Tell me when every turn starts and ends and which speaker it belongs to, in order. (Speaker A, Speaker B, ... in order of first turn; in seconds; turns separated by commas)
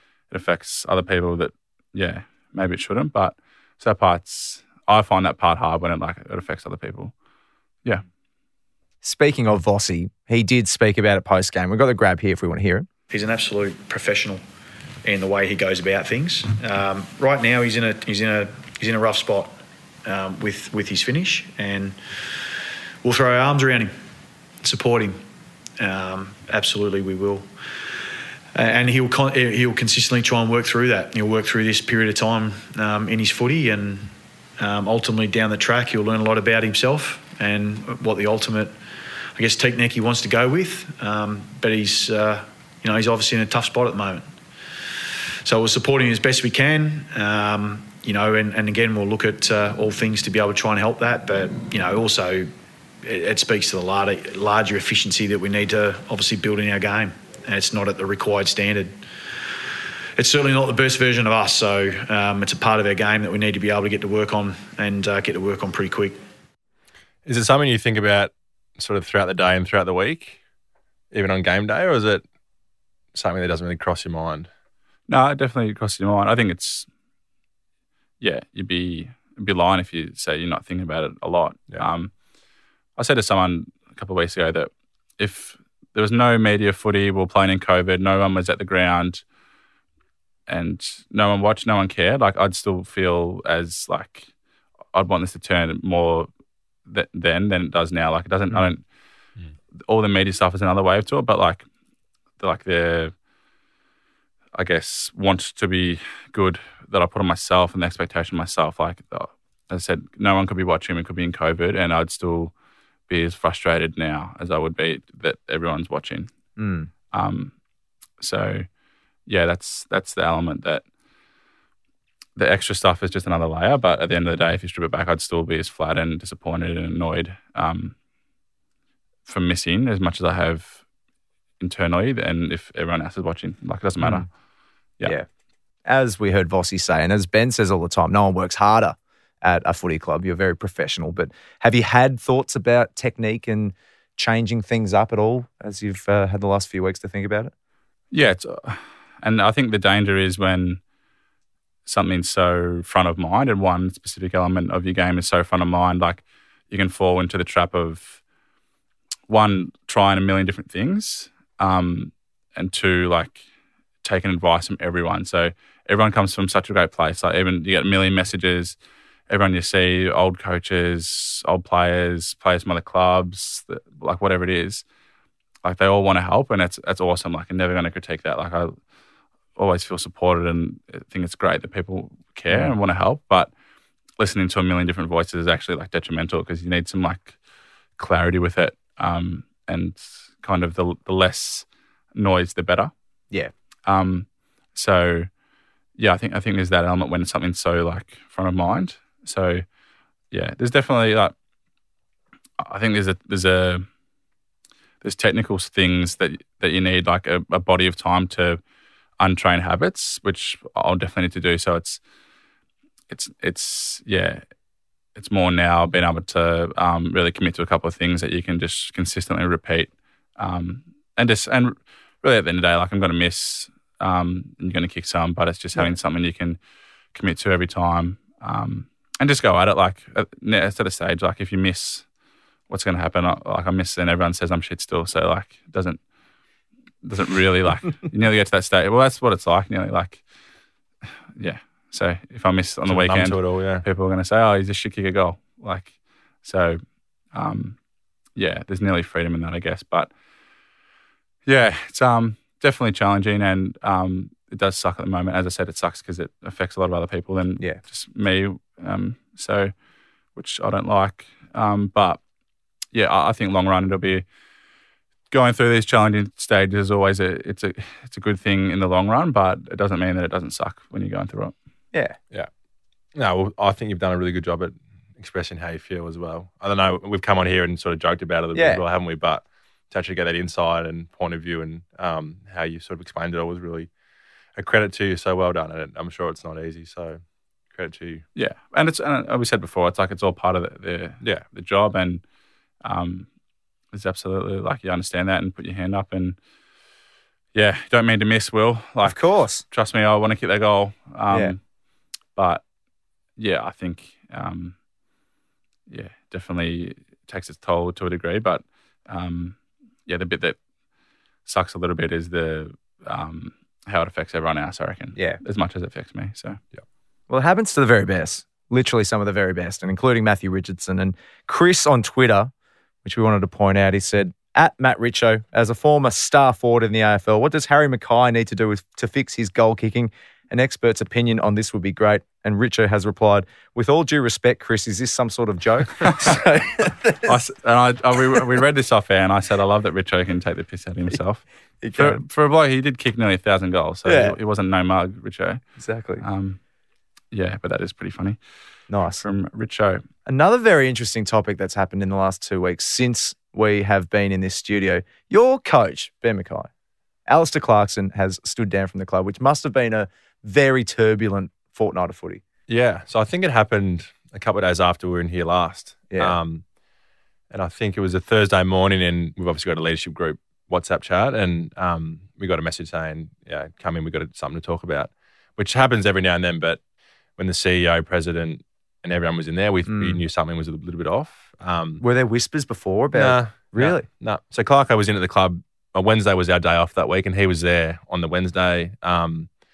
Speaker A: 0.3-7.1, Speaker B: 9.0-12.9, Speaker C: 13.1-14.4, Speaker C: 15.0-22.0, Speaker C: 23.0-23.9, Speaker C: 24.6-25.2, Speaker C: 25.8-27.5, Speaker C: 28.5-38.7, Speaker C: 39.4-44.3, Speaker C: 45.4-52.5, Speaker C: 53.0-59.0, Speaker C: 60.2-66.2, Speaker D: 67.3-70.4, Speaker D: 71.1-72.2, Speaker D: 73.1-74.5, Speaker A: 75.1-76.9, Speaker A: 78.2-82.1, Speaker A: 83.0-89.2, Speaker A: 90.5-94.3, Speaker A: 94.9-96.3, Speaker A: 96.9-98.8, Speaker A: 99.9-101.7, Speaker A: 102.4-103.1, Speaker A: 104.5-112.5, Speaker A: 113.1-116.3, Speaker B: 116.6-116.9, Speaker A: 117.1-117.5, Speaker A: 118.2-118.7, Speaker A: 119.3-120.8, Speaker A: 122.4-128.0, Speaker A: 129.3-130.8, Speaker A: 131.6-134.3, Speaker B: 135.9-147.5, Speaker A: 148.1-150.8, Speaker A: 151.9-158.2, Speaker A: 159.3-163.4, Speaker A: 164.0-168.8, Speaker A: 169.3-174.8, Speaker A: 175.6-178.8, Speaker A: 179.6-183.5, Speaker A: 184.2-187.4, Speaker A: 188.0-192.9, Speaker A: 193.9-195.3, Speaker A: 196.0-199.7, Speaker A: 200.3-201.3, Speaker A: 202.6-203.8, Speaker A: 205.0-208.6, Speaker A: 209.2-212.0, Speaker A: 213.1-214.4, Speaker A: 215.2-226.6, Speaker A: 227.1-232.0, Speaker A: 232.7-236.0, Speaker A: 237.0-240.2, Speaker A: 241.4-246.8, Speaker D: 242.9-243.8, Speaker A: 247.3-247.8, Speaker A: 248.3-250.1, Speaker A: 251.5-259.7, Speaker A: 260.4-262.2, Speaker A: 262.9-264.2, Speaker A: 265.3-271.5, Speaker D: 273.1-283.9, Speaker B: 278.6-278.8, Speaker D: 284.6-287.2, Speaker D: 287.7-288.2, Speaker A: 288.4-292.2, Speaker A: 292.8-293.3, Speaker A: 293.9-296.4, Speaker A: 297.5-299.2, Speaker B: 299.0-299.6, Speaker A: 299.7-301.6, Speaker B: 301.3-301.6, Speaker A: 302.4-302.6, Speaker A: 303.4-304.8, Speaker A: 305.9-310.6, Speaker A: 311.5-316.6, Speaker B: 317.3-322.5, Speaker B: 323.0-337.4, Speaker A: 336.1-336.4, Speaker A: 337.2-341.4, Speaker B: 341.8-342.2, Speaker A: 341.9-345.6, Speaker B: 344.1-344.4, Speaker B: 345.8-346.2, Speaker A: 346.2-346.6, Speaker A: 347.3-348.4, Speaker B: 348.9-349.2, Speaker A: 349.1-350.0, Speaker B: 350.3-356.7, Speaker B: 357.3-362.4, Speaker D: 362.7-366.6, Speaker B: 366.1-366.4, Speaker D: 367.5-376.8, Speaker D: 377.4-382.0, Speaker B: 379.9-380.2, Speaker B: 382.0-384.1, Speaker D: 383.1-389.5